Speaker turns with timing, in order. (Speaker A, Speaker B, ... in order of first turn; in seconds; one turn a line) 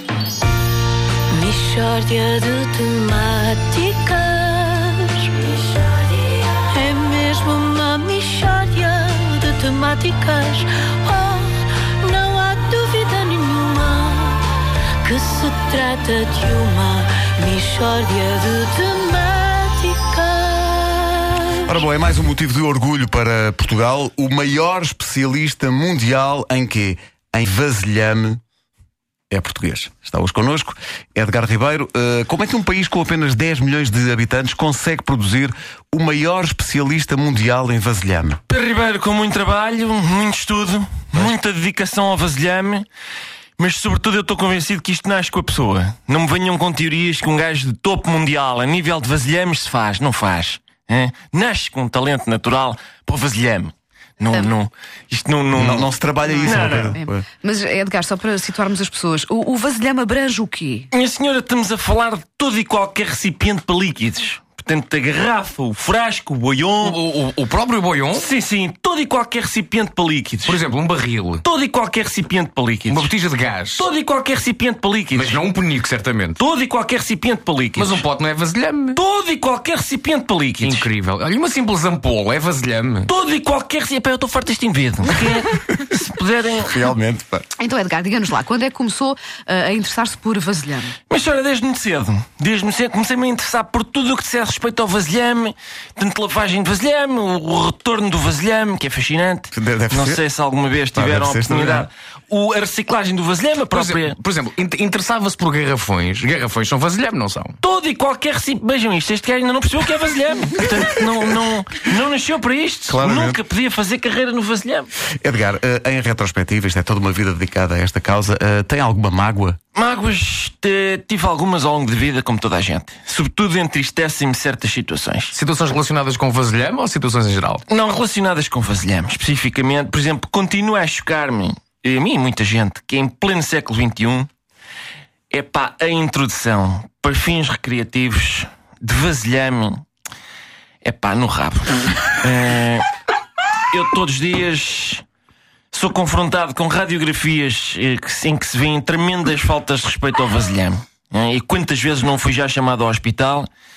Speaker A: 1.3-5.6
Speaker B: 5.7-6.6
Speaker A: 6.6-14.5
Speaker A: 15.0-20.9
Speaker C: 21.5-28.4
Speaker C: 29.3-38.4
Speaker D: 38.5-42.9
Speaker D: 43.6-55.9
Speaker C: 55.5-57.3
Speaker D: 56.4-57.0
Speaker B: 56.5-60.9
Speaker D: 60.9-67.0
Speaker E: 66.8-68.3
Speaker D: 68.1-70.6
Speaker E: 70.5-71.4
Speaker D: 71.4-73.1
Speaker E: 72.9-73.9
Speaker D: 73.8-75.4
Speaker E: 75.2-76.4
Speaker D: 76.4-78.0
Speaker E: 77.8-79.0
Speaker D: 78.9-80.9
Speaker E: 80.6-83.1
Speaker D: 83.1-86.9
Speaker C: 86.7-87.5
Speaker B: 87.6-91.0
Speaker D: 91.1-104.2
Speaker C: 99.5-100.2
Speaker C: 100.9-101.9
Speaker E: 103.7-107.6
Speaker D: 107.6-114.9
Speaker C: 112.9-113.4
Speaker C: 115.2-119.6
Speaker D: 119.8-125.3
Speaker E: 125.3-127.6
Speaker D: 127.7-134.3
Speaker D: 135.3-139.8
Speaker D: 140.8-142.9
Speaker D: 143.7-145.0
Speaker D: 145.7-153.5